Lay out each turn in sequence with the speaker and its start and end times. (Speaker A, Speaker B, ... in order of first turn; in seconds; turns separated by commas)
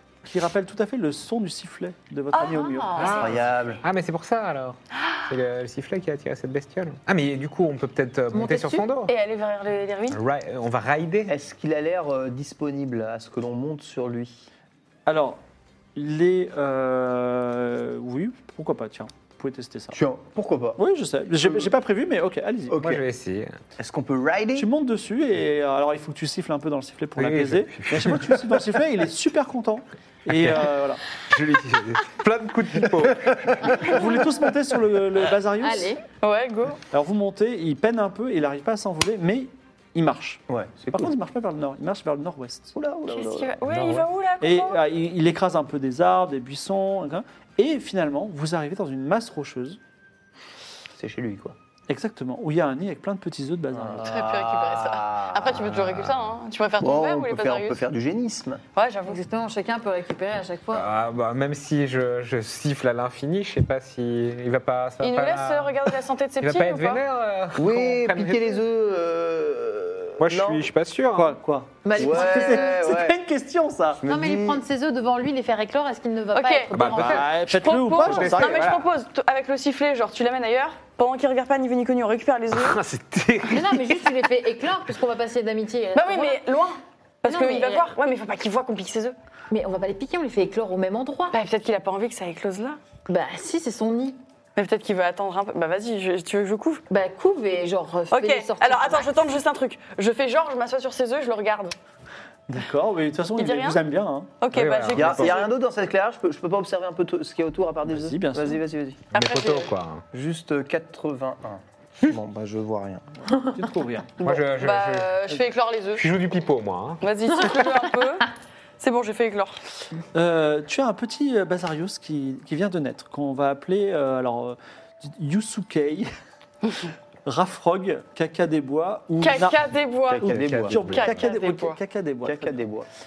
Speaker A: 0.2-3.3, Speaker B: 2.3-3.3, Speaker C: 2.4-3.2, Speaker D: 3.0-9.1, Speaker E: 3.2-3.8, Speaker C: 8.3-8.9, Speaker B: 9.1-10.2, Speaker D: 10.1-11.3, Speaker E: 11.3-14.5, Speaker A: 15.1-15.4, Speaker A: 15.9-20.0, Speaker E: 19.9-20.8, Speaker A: 20.8-22.9, Speaker E: 21.4-21.7, Speaker E: 22.7-23.0, Speaker D: 22.8-23.5, Speaker E: 23.8-24.7, Speaker A: 24.6-31.0, Speaker D: 27.2-28.4, Speaker D: 31.3-33.9, Speaker E: 33.1-33.7, Speaker A: 33.8-36.0, Speaker C: 35.6-36.0, Speaker B: 36.2-36.8, Speaker A: 36.9-40.4, Speaker E: 40.5-41.1, Speaker A: 40.9-42.8, Speaker E: 42.8-43.6, Speaker B: 43.1-44.8, Speaker D: 43.6-44.1, Speaker A: 44.4-49.8, Speaker E: 50.9-51.6, Speaker A: 51.9-54.0, Speaker E: 53.7-55.8, Speaker B: 54.0-57.8, Speaker D: 55.8-56.1, Speaker E: 56.8-58.6, Speaker B: 58.8-59.2, Speaker C: 59.1-60.9, Speaker D: 60.7-65.9, Speaker B: 65.0-67.0, Speaker D: 66.4-68.6, Speaker E: 67.5-70.7, Speaker D: 70.2-71.4, Speaker A: 71.1-74.0, Speaker C: 71.8-72.8, Speaker E: 72.0-73.2, Speaker E: 74.0-74.6, Speaker C: 74.1-77.3, Speaker B: 76.3-82.8, Speaker D: 76.7-77.2, Speaker A: 76.9-78.7, Speaker D: 78.0-78.8, Speaker D: 82.5-84.0, Speaker C: 83.5-86.4, Speaker B: 86.0-89.2, Speaker C: 87.3-87.9, Speaker C: 89.5-91.3, Speaker B: 91.3-92.8, Speaker C: 93.1-94.2, Speaker B: 94.6-96.8, Speaker C: 96.9-99.1, Speaker B: 98.1-101.8, Speaker A: 102.5-104.4, Speaker B: 103.4-103.8, Speaker B: 104.4-105.5, Speaker D: 104.5-105.5, Speaker E: 104.9-109.0, Speaker A: 107.9-108.6, Speaker D: 109.1-110.0, Speaker B: 109.1-109.7, Speaker E: 110.1-113.1, Speaker A: 113.3-114.2, Speaker B: 114.2-116.1, Speaker D: 114.2-115.2, Speaker D: 116.0-117.0, Speaker B: 117.0-118.3, Speaker B: 118.8-119.6, Speaker A: 120.1-126.1, Speaker A: 127.2-129.6, Speaker B: 129.2-131.8, Speaker E: 130.1-130.8, Speaker D: 130.2-131.2, Speaker A: 130.2-132.6, Speaker E: 132.2-132.9